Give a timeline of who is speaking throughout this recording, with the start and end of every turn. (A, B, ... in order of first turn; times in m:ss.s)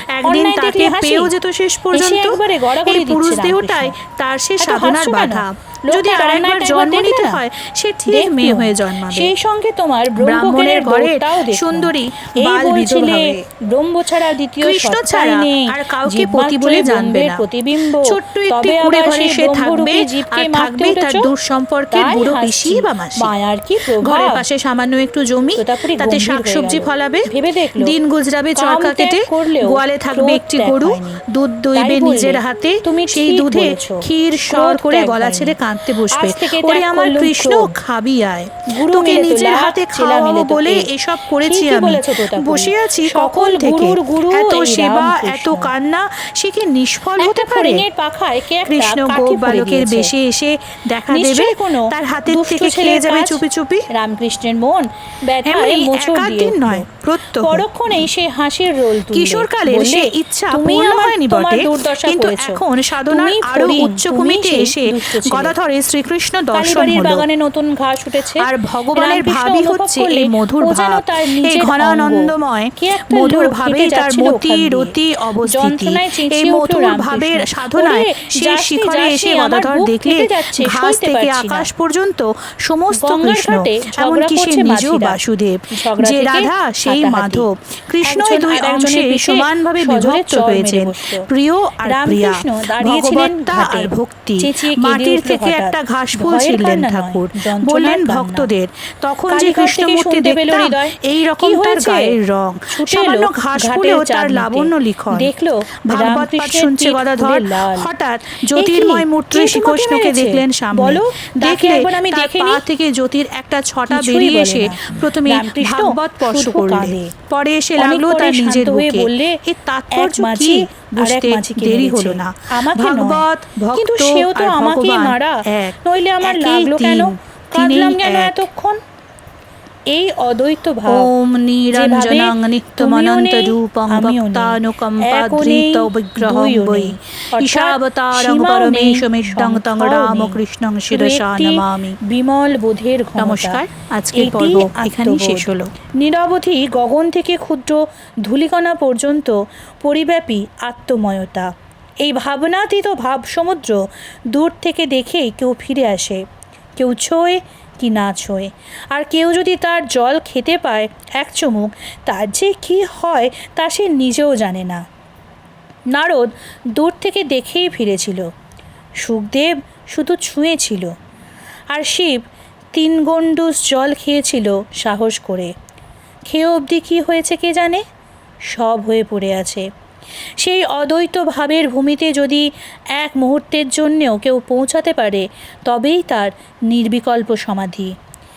0:00.1-0:09.3 A
0:00.3-0:01.3 B
0:01.9-0:04.0 B
0:04.6-0:07.4 B
0:08.1-0:21.3 B
0:10.2-0:13.4 A
0:14.6-0:17.4 A
0:18.0-0:23.3 A
0:21.9-0:24.4 B
0:24.0-0:47.8 A
0:25.6-0:27.9 B
0:28.6-0:31.2 B
0:31.8-0:35.6 B
0:36.1-0:37.8 B
0:38.7-0:40.9 B
0:41.4-0:45.7 B
0:47.2-0:50.1 B
0:48.7-0:53.9 A
0:51.1-1:05.6 B
0:55.4-0:57.9 A
0:59.1-1:07.3 A
1:06.5-1:21.7 B
1:08.4-1:45.3 A
1:22.9-1:25.2 B
1:25.7-1:27.5 B
1:28.0-1:31.3 B
1:31.8-1:38.5 B
1:39.3-1:42.2 B
1:42.7-1:47.9 B
1:45.9-2:08.5 A
1:48.6-1:52.6 B
1:53.9-1:57.1 B
1:57.8-2:08.8 B
2:09.9-2:11.1 B
2:10.9-2:22.0 A
2:11.7-2:23.6 B
2:23.2-2:25.7 A
2:24.2-2:31.5 B
2:32.0-2:36.2 B
2:36.8-2:44.8 B
2:45.9-2:48.3 B
2:49.0-2:50.9 B
2:51.7-2:55.5 B
2:56.3-2:57.8 B
2:58.5-2:59.7 B
3:00.4-3:07.9 B